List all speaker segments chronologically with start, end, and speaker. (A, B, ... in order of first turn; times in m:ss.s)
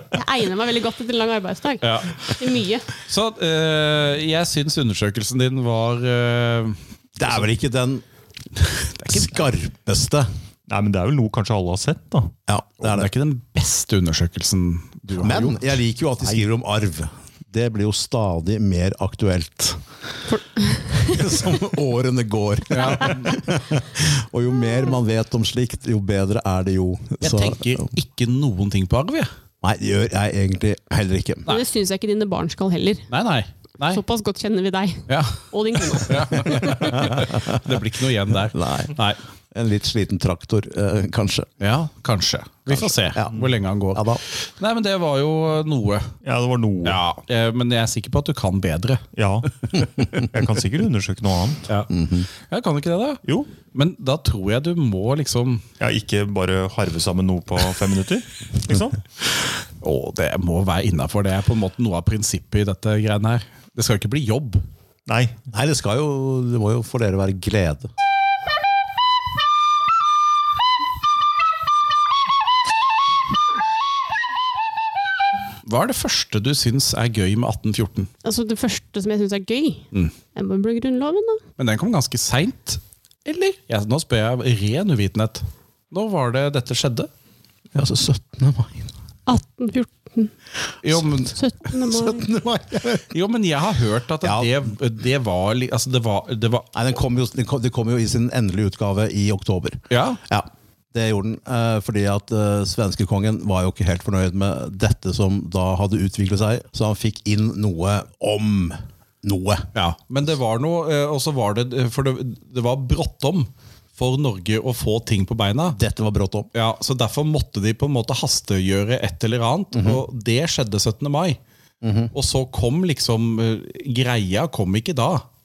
0:00.1-0:02.9 A
0:01.8-0:02.4 B
0:03.0-0:07.4 B
0:07.2-0:08.0 C
0:08.8-0:09.4 B
0:09.0-0:10.3 C
0:10.7-0:12.4 D
0:12.5-0:13.1 C
0:12.8-0:15.7 B
0:15.2-0:19.9 C
0:20.3-0:21.4 A
0:21.0-0:27.9 C
0:22.7-0:23.4 B
0:27.2-0:29.3 B
0:29.6-0:31.5 C
0:31.5-0:33.1 A
0:33.1-0:34.0 B
0:33.9-0:37.2 A
0:35.1-0:39.2 B
0:37.0-0:37.8 C
0:38.5-0:39.0 C
0:39.5-0:41.5 C
0:41.6-0:46.1 B
0:42.7-0:44.2 C
0:46.2-0:47.0 D
0:46.8-0:49.1 B
0:49.2-0:51.7 D
0:51.9-0:52.3 C
0:52.4-0:55.6 B
0:53.2-0:53.5 D
0:55.8-0:59.0 D
0:59.8-1:04.6 B
1:05.1-1:05.4 D
1:05.5-1:07.9 C
1:15.6-1:18.1 B
1:18.2-1:21.4 A
1:21.6-1:27.1 B
1:27.7-1:28.9 C
1:29.3-1:30.3 A
1:30.8-1:31.4 B
1:31.3-1:32.3 A
1:31.7-1:33.1 C
1:33.1-1:36.7 B
1:34.2-1:34.7 C
1:36.7-1:49.7 C
1:39.9-1:40.2 B
1:49.7-1:55.8 B
1:55.7-1:56.5 C
1:56.5-2:01.4 B
1:59.7-2:00.0 C
2:01.8-2:02.1 C
2:02.1-2:05.2 B